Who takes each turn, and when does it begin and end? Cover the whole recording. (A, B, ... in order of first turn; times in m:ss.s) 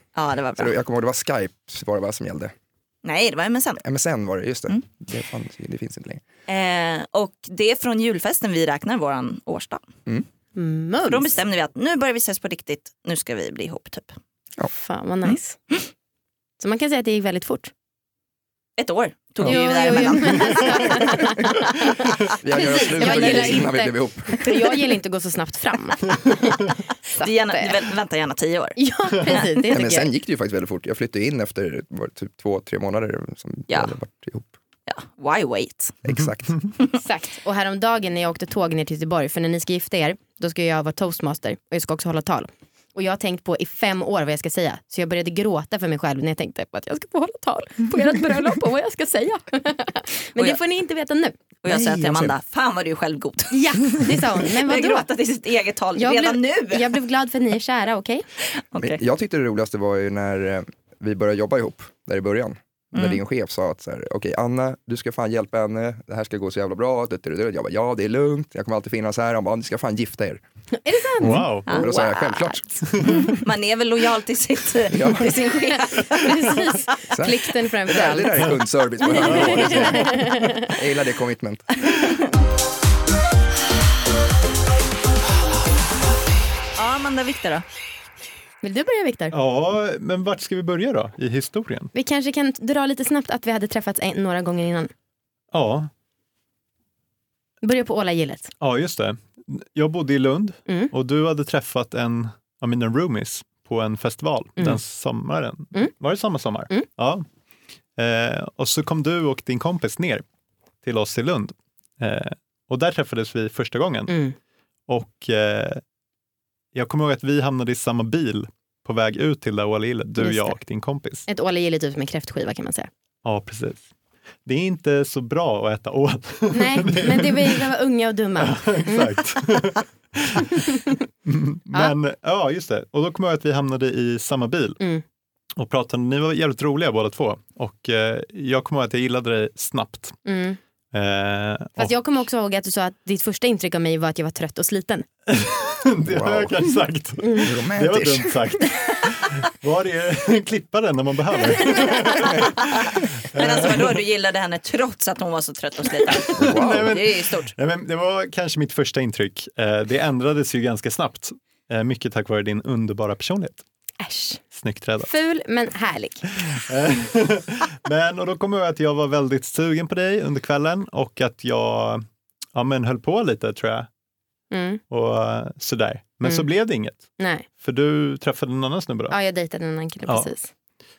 0:00.1-0:00.7 A
0:00.6-0:02.5 B
0:03.0-0:03.8 A
0:03.8-0:06.2 B
0:06.5-0:09.8 A
0:10.6-0:11.3 C
0:11.1-0:14.1 A
0:14.7-0:15.6 C
0:16.6-0:17.7 C
0:18.8-0:21.2 A
0:19.4-0:27.8 C
0:22.3-0:24.5 B
0:23.0-0:23.6 A
0:27.2-0:28.8 A
0:28.8-0:30.1 C
0:29.7-0:34.5 B
0:33.7-0:33.9 A
0:34.9-0:36.0 A
0:36.0-0:36.6 B
0:37.0-0:51.3 C
0:51.6-0:57.0 A
0:51.6-0:52.4 B
0:53.5-0:55.1 C
0:56.0-0:58.2 C
0:58.7-0:59.0 A
0:58.8-1:10.4 B
1:02.9-1:03.2 A
1:10.8-1:12.6 C
1:11.2-1:11.7 D
1:11.2-1:12.9 B
1:11.7-1:12.4 A
1:12.9-1:13.3 D
1:13.2-1:16.6 A
1:14.9-1:15.4 B
1:15.7-1:20.7 C
1:17.1-1:21.8 B
1:19.2-1:20.2 D
1:26.8-1:27.6 A
1:28.6-1:29.3 C
1:29.3-1:31.9 D
1:31.9-1:34.9 C
1:35.5-1:35.9 D
1:37.6-1:38.5 C
1:38.6-1:47.2 D
1:40.7-1:40.9 C
1:48.0-1:50.2 D
1:50.8-1:54.1 D
1:54.1-1:54.4 C
1:54.9-1:55.8 D
1:56.7-2:01.2 D
2:00.2-2:00.6 C
2:01.3-2:02.9 C
2:03.2-2:03.8 D
2:04.4-2:07.6 D
2:06.5-2:09.1 C
2:08.4-2:14.8 D
2:15.6-2:20.2 D
2:20.2-2:20.6 C
2:20.9-2:21.9 D
2:21.8-2:25.0 C
2:25.3-2:34.0 D
2:26.0-2:26.6 B
2:27.2-2:27.5 C
2:27.4-2:28.4 B
2:33.3-2:37.5 A
2:36.3-2:43.6 D
2:36.4-2:37.0 B
2:44.0-2:44.4 C
2:44.5-2:45.1 D
2:45.0-2:46.2 C
2:46.4-2:53.9 D
2:54.5-2:54.8 C
2:54.9-2:59.2 D
2:57.2-2:57.4 C
2:59.1-3:00.5 C